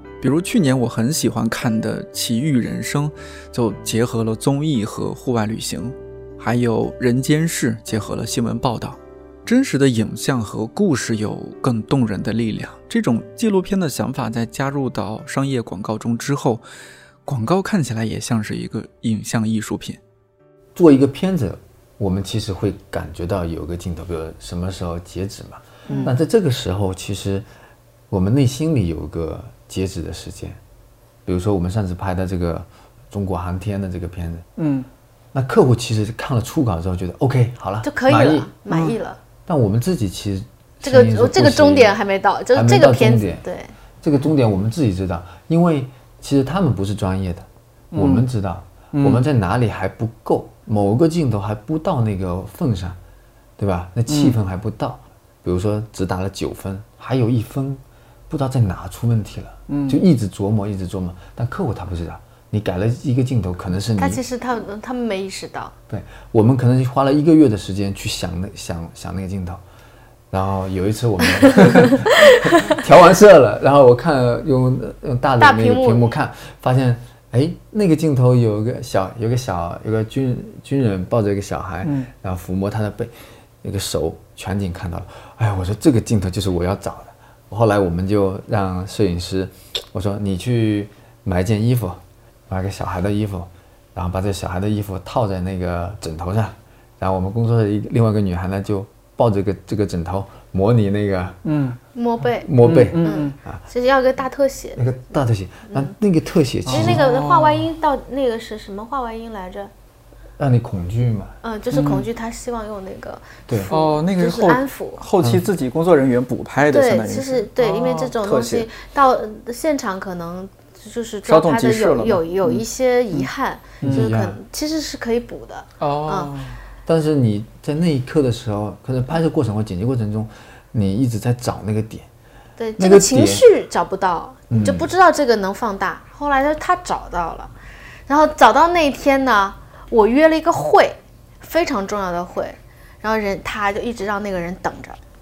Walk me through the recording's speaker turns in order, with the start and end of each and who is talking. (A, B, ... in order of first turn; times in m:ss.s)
0:00.2-0:16.6 A
0:17.3-0:20.0 A
0:20.8-0:27.5 B
0:25.9-0:26.1 A
0:28.1-0:30.6 B
0:31.3-0:34.5 B
0:34.6-0:34.9 A
0:35.3-0:38.5 B
0:37.8-0:39.2 C
0:38.7-0:39.0 A
0:39.5-0:42.0 B
0:40.8-0:43.7 C
0:42.5-0:43.4 B
0:44.0-0:53.0 B
0:47.9-0:48.3 A
0:48.9-0:49.2 A
0:53.6-1:04.2 B
0:54.1-0:54.4 A
0:59.7-1:00.0 A
1:04.0-1:05.7 C
1:05.9-1:09.6 B
1:10.3-1:41.4 B
1:11.9-1:12.7 C
1:15.4-1:16.1 C
1:21.8-1:22.1 A
1:41.4-1:41.8 A
1:42.0-1:44.8 C
1:42.4-1:43.6 B
1:42.6-1:43.4 A
1:44.8-1:47.1 B
1:46.7-1:47.7 A
1:46.7-1:49.7 C
1:50.4-1:51.4 B
1:51.4-1:55.0 C
1:51.7-1:52.1 A
1:53.7-1:58.7 A
1:56.7-2:06.3 C
2:01.3-2:03.3 A
2:03.8-2:04.1 A
2:03.8-2:04.4 B
2:05.8-2:06.6 A
2:06.9-2:12.1 B
2:12.6-2:17.5 C
2:12.8-2:13.5 B
2:14.5-2:14.9 B
2:18.1-2:25.0 C